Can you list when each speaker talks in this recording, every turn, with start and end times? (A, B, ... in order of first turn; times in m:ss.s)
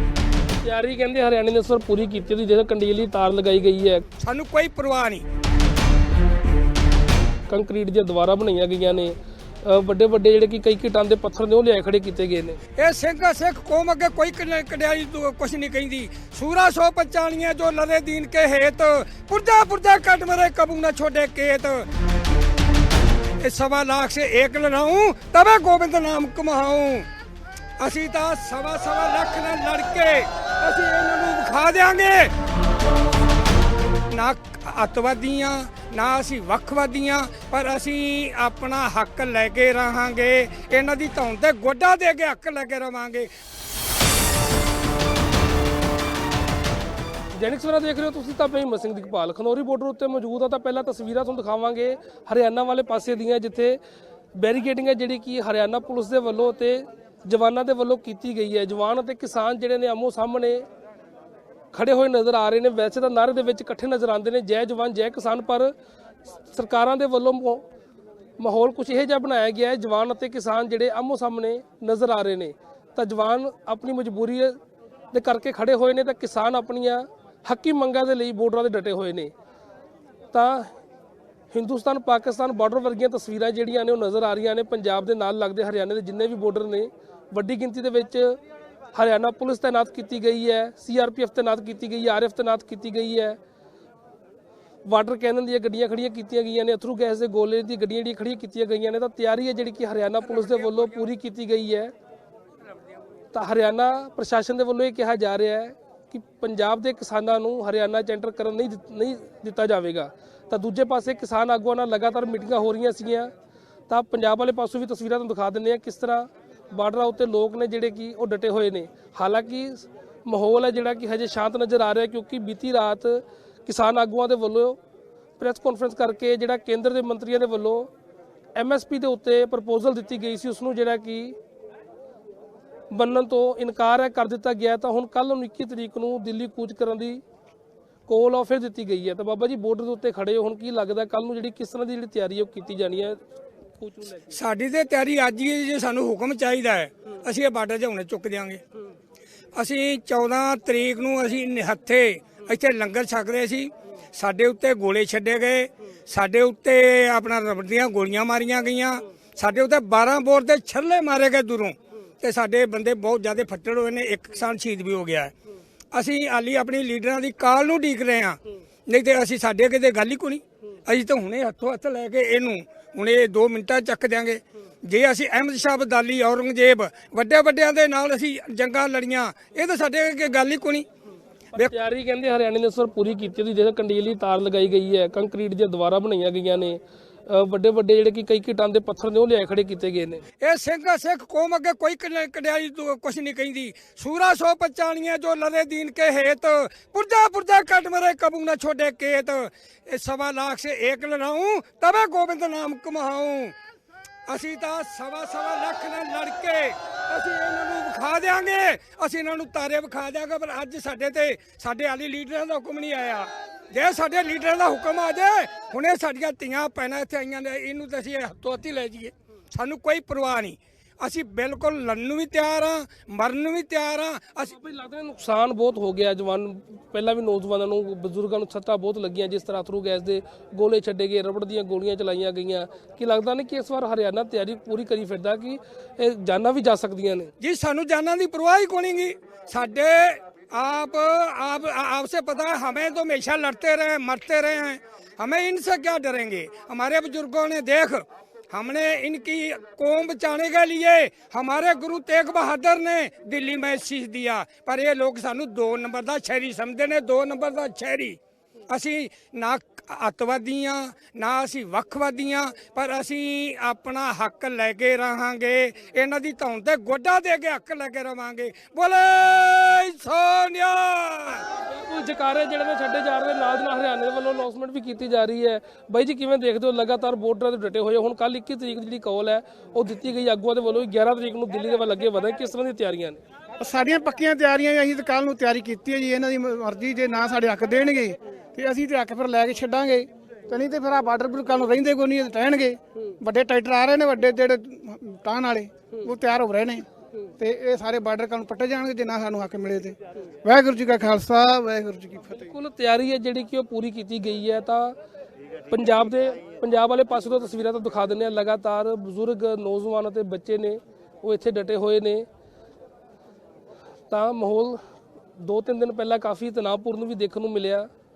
0:00.6-0:04.0 A
0:04.2-0:05.2 B
0:07.5-0:12.6 A
0:12.8-0:21.8 B
0:23.4-0:27.1 B
0:27.8-0:32.3 B
0:34.1-0:43.3 B
0:47.3-0:53.8 A
0:54.4-1:00.6 A
1:01.7-1:05.7 A
1:06.5-1:07.6 A
1:08.4-1:14.6 A
1:15.1-1:19.3 A
1:20.3-1:20.7 A
1:21.5-1:28.4 A
1:28.9-1:33.4 A
1:34.8-1:41.9 A
1:43.3-1:53.3 A
1:53.9-2:04.8 A
2:05.4-2:07.9 A
2:08.5-2:11.4 A
2:12.9-2:17.2 A
2:18.1-2:23.2 A
2:23.8-2:24.3 A
2:24.3-2:28.6 B
2:29.6-2:45.3 B
2:45.9-3:00.9 B
3:01.5-3:10.2 A
3:10.4-3:23.5 B
3:24.3-3:44.5 B
3:44.6-3:57.3 A
3:57.4-4:18.2 B
4:18.7-4:31.5 B
4:31.6-4:43.2 A
4:43.6-4:56.8 C
4:57.4-5:02.4 C
5:02.3-5:04.9 A
5:05.7-5:12.2 A
5:14.1-5:14.8 A
5:15.4-5:17.9 A